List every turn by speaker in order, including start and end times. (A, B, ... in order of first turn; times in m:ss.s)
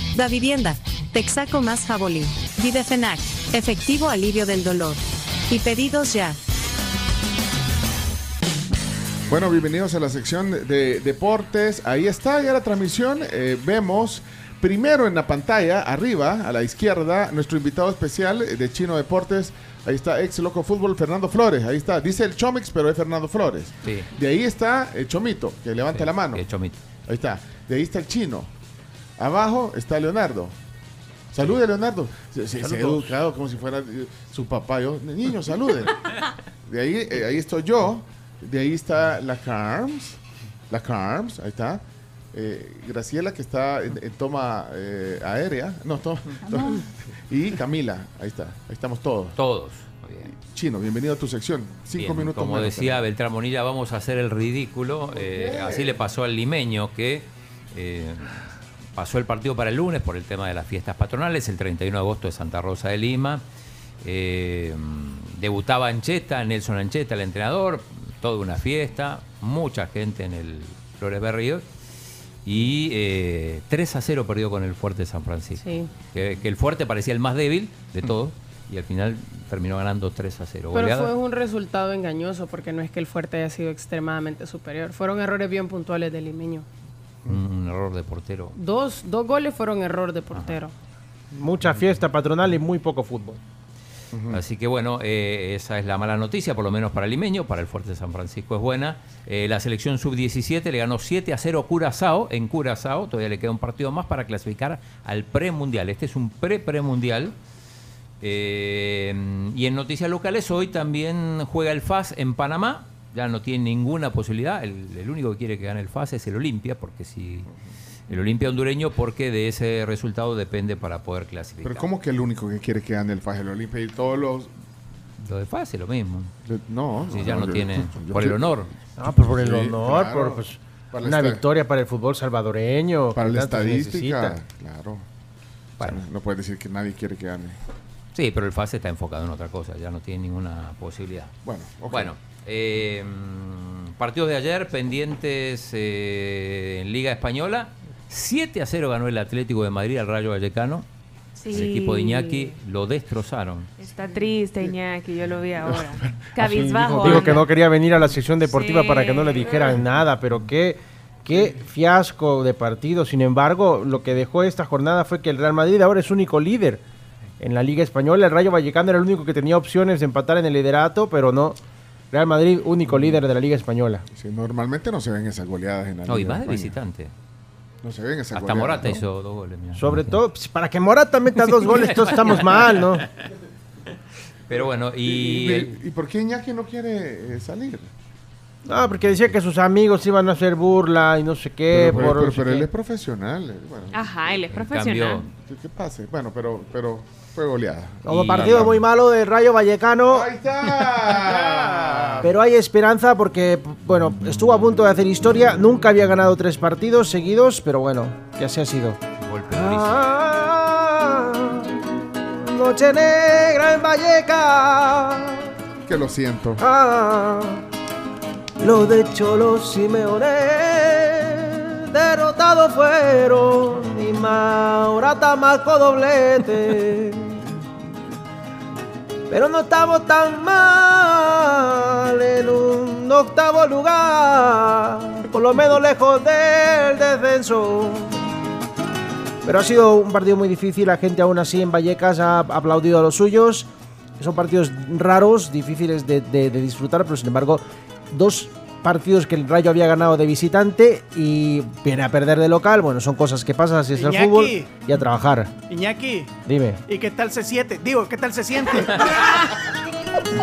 0:00.1-0:06.4 A
0:09.3-0:26.4 B
0:25.9-0:26.8 C
0:27.1-0:28.5 B
0:29.2-0:30.6 B
0:31.3-0:36.1 B
0:36.7-0:40.2 B
0:40.7-0:41.8 B
0:42.3-0:49.4 B
0:49.4-0:50.3 C
0:50.3-0:53.1 B
0:52.0-0:58.4 C
0:55.4-0:55.9 B
0:59.0-1:03.4 C
1:04.0-1:11.6 C
1:12.4-1:21.1 C
1:15.6-1:15.9 D
1:20.7-1:26.6 D
1:27.3-1:28.5 C
1:28.6-1:30.7 D
1:30.3-1:30.6 C
1:31.4-1:33.4 E
1:34.1-1:34.4 B
1:34.3-1:47.4 C
1:48.2-1:57.5 C
1:58.1-2:01.8 C
2:01.6-2:04.5 B
2:05.2-2:06.3 C
2:06.4-2:11.4 B
2:07.1-2:08.7 C
2:09.0-2:14.4 E
2:13.1-2:15.0 B
2:15.8-2:17.6 B
2:18.2-2:21.3 C
2:21.4-2:22.1 B
2:21.9-2:30.9 C
2:31.4-2:32.5 F
2:31.5-2:33.7 C
2:33.8-2:37.4 F
2:35.6-2:37.4 B
2:37.1-2:46.8 E
2:38.5-2:39.8 F
2:47.4-2:51.6 E
2:52.1-2:54.0 E
2:54.1-2:56.8 B
2:56.1-2:57.1 C
2:57.8-2:59.0 B
2:58.3-3:00.2 C
2:59.8-3:03.1 E
3:01.4-3:03.0 C
3:04.5-3:05.8 C
3:05.0-3:07.9 B
3:08.6-3:12.7 E
3:08.7-3:09.3 C
3:11.7-3:14.7 B
3:13.9-3:15.2 F
3:14.5-3:15.3 C
3:15.4-3:18.8 B
3:18.0-3:20.3 E
3:18.1-3:18.8 C
3:20.1-3:22.3 B
3:22.2-3:35.5 E
3:29.2-3:30.0 C
3:35.9-3:36.6 B
3:36.6-3:37.6 E
3:38.6-3:47.4 E
3:49.3-3:58.2 E
3:59.4-4:03.7 E
4:04.2-4:15.6 E
4:14.0-4:14.7 G
4:15.7-4:16.3 G
4:16.5-4:16.8 E
4:16.9-4:19.4 G